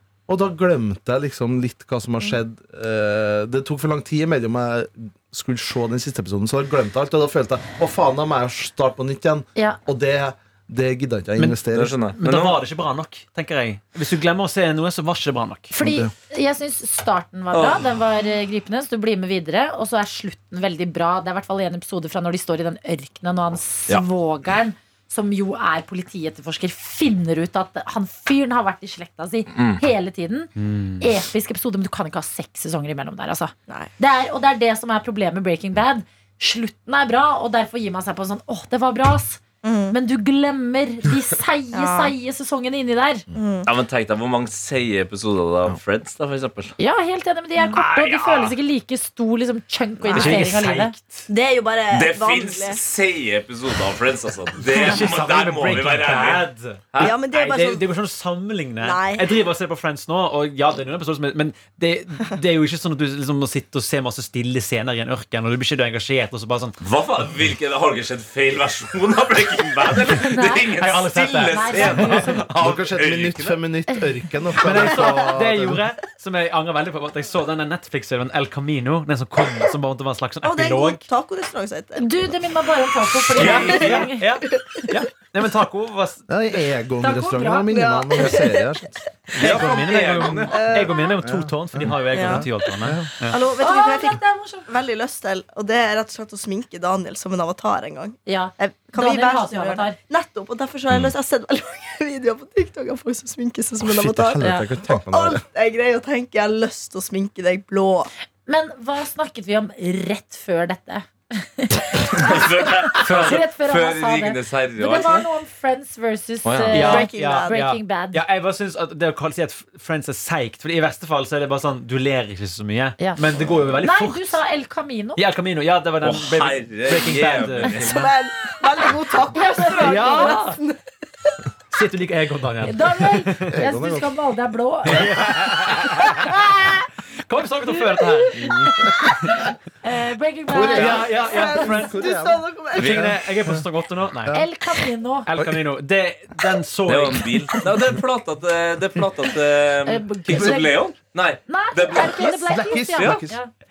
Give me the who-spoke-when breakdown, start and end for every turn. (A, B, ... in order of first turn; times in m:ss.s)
0:00.3-0:12.0 A
0:11.7-0:12.6 B
0:12.1-0:15.8 C
0:15.7-0:43.2 D
0:15.8-0:16.1 A
0:17.5-0:17.8 B
0:29.5-0:29.8 B
0:30.6-0:31.1 C
0:39.6-0:39.9 E
0:41.7-0:42.1 E
0:43.4-0:43.7 E
0:43.6-0:46.8 B
0:46.8-0:50.9 D
0:47.8-0:48.3 C
0:47.9-0:48.5 B
0:50.0-0:50.5 E
0:50.1-0:51.3 C
0:51.3-0:52.8 E
0:51.9-0:57.1 B
0:54.6-1:06.8 C
0:57.0-0:57.9 E
0:58.8-0:59.4 E
1:06.8-1:13.6 B
1:10.1-1:10.7 D
1:10.8-1:12.5 C
1:11.4-1:12.4 D
1:12.6-1:15.8 A
1:14.6-1:21.0 C
1:20.4-1:22.1 E
1:22.0-1:24.3 D
1:23.3-1:26.3 C
1:23.4-1:23.8 B
1:23.5-1:23.9 E
1:26.3-1:29.0 A
1:27.0-1:27.8 D
1:27.7-1:28.7 E
1:29.3-1:33.4 C
1:29.4-1:30.7 B
1:30.5-1:31.1 E
1:31.2-1:33.1 A
1:32.1-1:32.6 E
1:33.3-1:48.1 E
1:33.6-1:34.7 D
1:38.3-1:40.0 D
1:43.8-1:45.4 A
1:44.4-1:44.7 D
1:48.5-1:58.2 D
1:52.1-1:55.3 B
1:53.0-1:53.4 C
1:56.4-1:56.9 B
1:56.7-2:04.4 C
1:56.8-1:57.6 E
2:03.0-2:05.2 D
2:05.2-2:08.1 C
2:06.0-2:08.0 B
2:07.8-2:11.3 E
2:09.3-2:10.6 D
2:09.8-2:10.6 C
2:11.7-2:13.6 C
2:12.6-2:15.5 D
2:13.5-2:14.1 A
2:14.9-2:16.5 C
2:16.2-2:16.8 D
2:17.3-2:18.5 C
2:18.0-2:21.3 D
2:18.4-2:19.4 A
2:20.5-2:23.7 A
2:20.7-2:22.0 C
2:20.8-2:23.0 E
2:22.8-2:23.1 B
2:22.8-2:24.4 C
2:24.3-2:25.3 D
2:25.3-2:27.6 C
2:26.9-2:33.2 B
2:29.8-2:30.8 D
2:30.3-2:30.6 A
2:31.5-2:33.5 D
2:32.0-2:33.4 A